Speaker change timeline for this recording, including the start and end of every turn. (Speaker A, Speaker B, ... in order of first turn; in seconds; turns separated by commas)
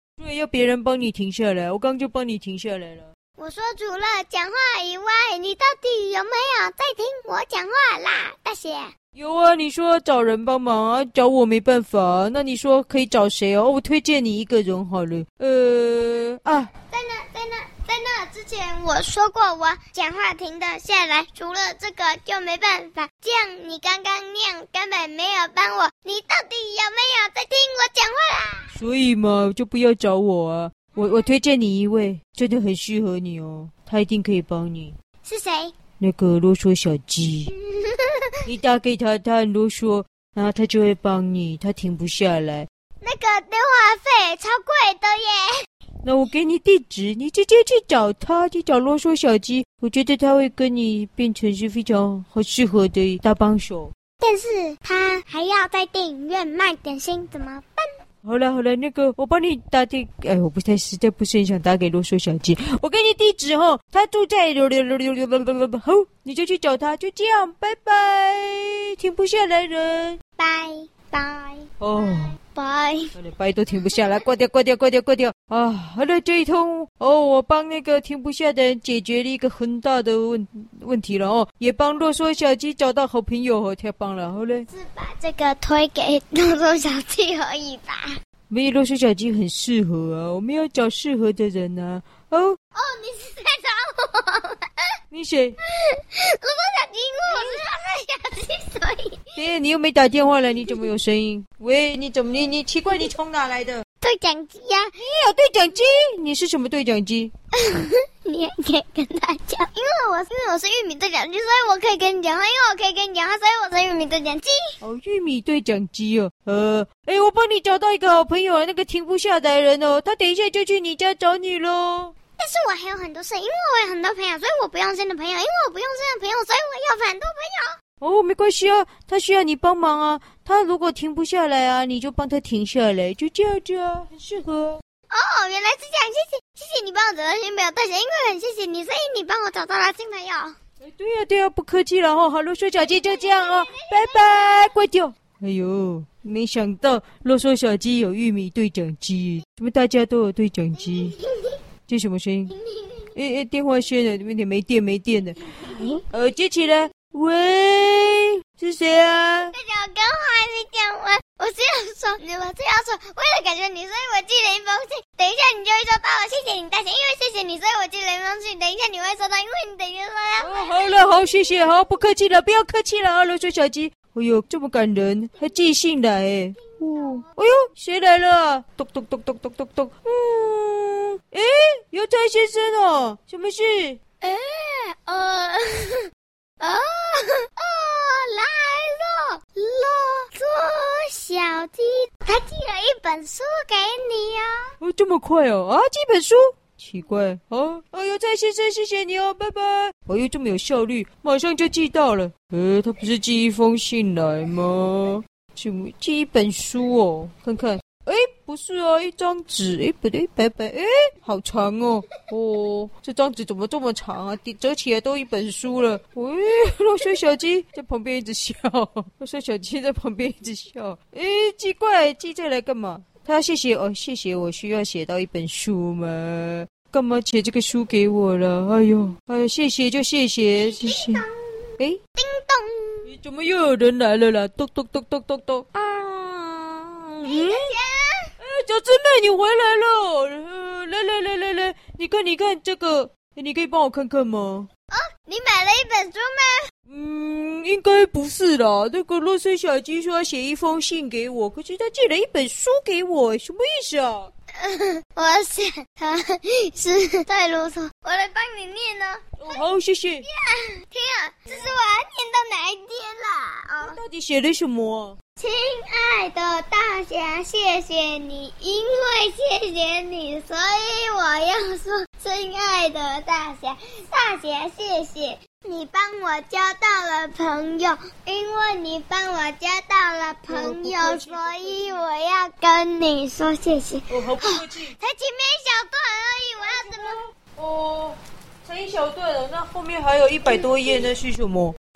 Speaker A: 0.2-3.1, Speaker B: 3.4-8.9, Speaker A: 9.1-16.7, Speaker B: 16.9-28.7, Speaker A: 28.7-35.0, Speaker B: 35.2-35.7, Speaker A: 36.0-37.5, Speaker B: 37.5-38.2, Speaker A: 38.5-42.7, Speaker B: 43.0-45.5, Speaker A: 46.0-53.9, Speaker B: 54.2-57.9, Speaker A: 58.2-70.2, Speaker B: 70.4-71.7, Speaker A: 71.8-72.3, Speaker B: 72.4-73.1, Speaker A: 73.2-84.7, Speaker B: 84.7-88.1, Speaker A: 88.5-92.6, Speaker B: 92.8-94.8, Speaker A: 95.1-95.6, Speaker B: 95.7-99.3, Speaker A: 97.3-97.6, Speaker A: 99.4-103.8, Speaker B: 104.0-104.9, Speaker A: 105.0-107.3, Speaker B: 107.5-114.6, Speaker A: 114.8-122.1, Speaker B: 122.4-127.8, Speaker A: 128.0-134.8, Speaker B: 135.1-140.6, Speaker A: 140.8-151.2, Speaker B: 142.8-144.7, Speaker B: 150.8-151.6, Speaker A: 151.9-152.5, Speaker B: 152.5-153.1, Speaker A: 153.1-155.4, Speaker B: 155.6-156.0, Speaker A: 156.1-159.5, Speaker B: 159.5-171.3, Speaker A: 170.4-184.0, Speaker B: 176.6-177.3, Speaker B: 184.2-186.1, Speaker B: 186.6-194.7, Speaker A: 194.8-231.2, Speaker B: 230.6-233.1, Speaker A: 233.1-237.7, Speaker B: 237.2-238.3, Speaker A: 238.4-244.7, Speaker B: 244.9-246.7, Speaker A: 246.9-254.3, Speaker B: 254.6-259.6, Speaker A: 259.4-260.3, Speaker B: 260.2-264.0, Speaker A: 263.8-265.2, Speaker B: 265.4-287.2, Speaker A: 280.5-282.1, Speaker A: 284.1-284.9, Speaker A: 286.6-291.8, Speaker B: 290.5-291.0